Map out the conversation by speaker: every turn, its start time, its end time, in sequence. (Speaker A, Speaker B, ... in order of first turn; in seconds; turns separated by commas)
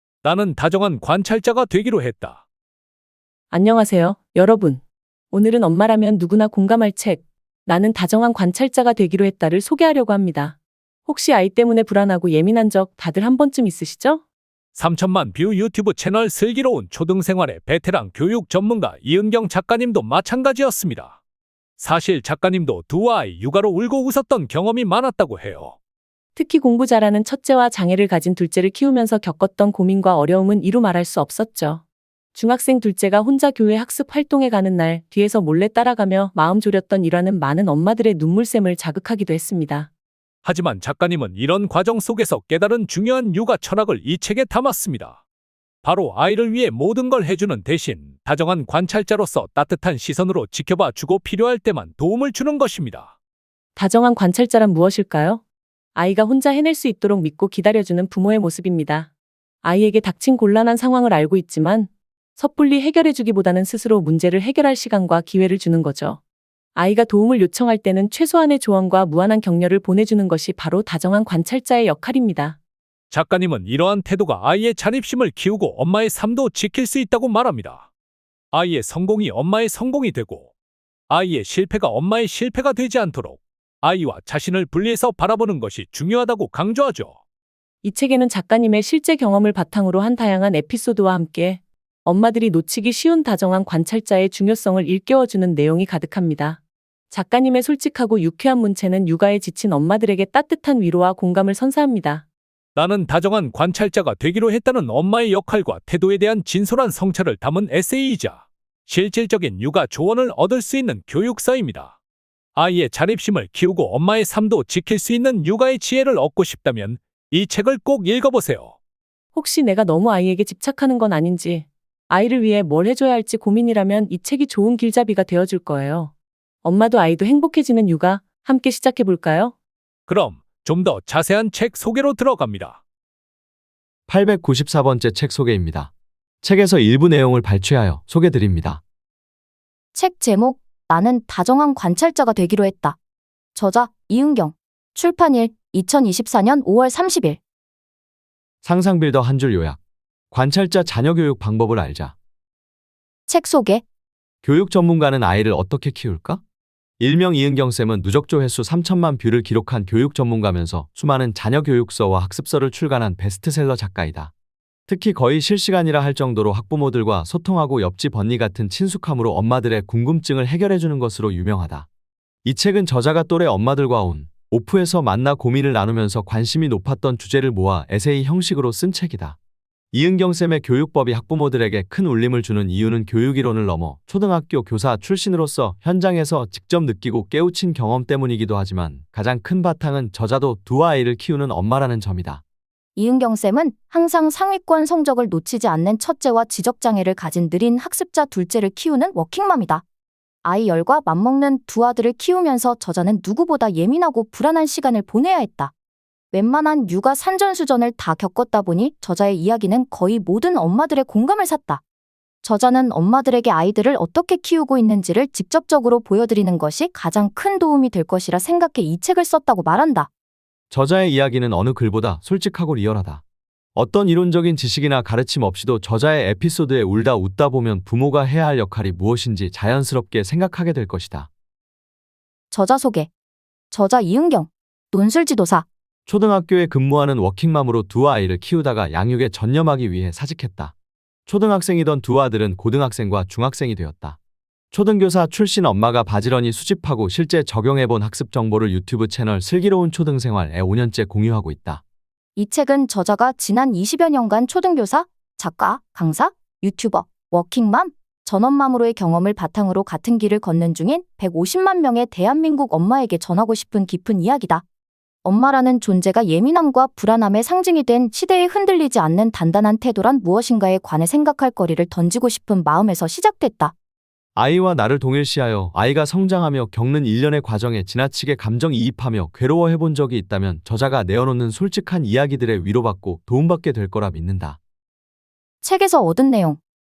Speaker A: 0.2-2.4, Speaker B: 3.5-4.8, Speaker B: 5.3-10.6, Speaker B: 11.1-14.2, Speaker A: 14.7-21.2, Speaker A: 21.8-25.8, Speaker B: 26.4-31.8, Speaker B: 32.3-39.9, Speaker A: 40.4-45.2, Speaker A: 45.8-53.1, Speaker B: 53.8-55.4, Speaker B: 55.9-59.1, Speaker B: 59.6-66.2, Speaker B: 66.7-72.6, Speaker A: 73.1-77.9, Speaker A: 78.5-80.5, Speaker A: 81.1-87.2, Speaker B: 87.8-96.6, Speaker B: 97.1-102.2, Speaker A: 102.7-111.9, Speaker A: 112.5-118.7, Speaker B: 119.3-126.1, Speaker B: 126.6-129.5, Speaker A: 130.1-132.8, Speaker C: 134.1-135.9, Speaker C: 136.4-138.8, Speaker D: 139.9-143.0, Speaker D: 143.5-147.4, Speaker C: 148.6-149.8, Speaker C: 150.3-152.1, Speaker D: 153.3-153.8, Speaker C: 154.4-156.4, Speaker C: 157.0-164.3, Speaker C: 164.9-171.9, Speaker C: 172.4-179.4, Speaker C: 179.9-192.4, Speaker D: 192.9-199.8, Speaker D: 200.4-205.7, Speaker D: 206.3-211.8, Speaker D: 212.4-220.1, Speaker C: 220.7-223.2, Speaker C: 223.7-231.3, Speaker D: 232.5-233.1, Speaker D: 233.7-235.7, Speaker C: 236.1-240.7, Speaker C: 241.3-244.2, Speaker C: 244.7-251.8, Speaker D: 252.3-264.6, Speaker D: 265.2-273.7, Speaker C: 274.4-284.6, Speaker D: 285.6-286.6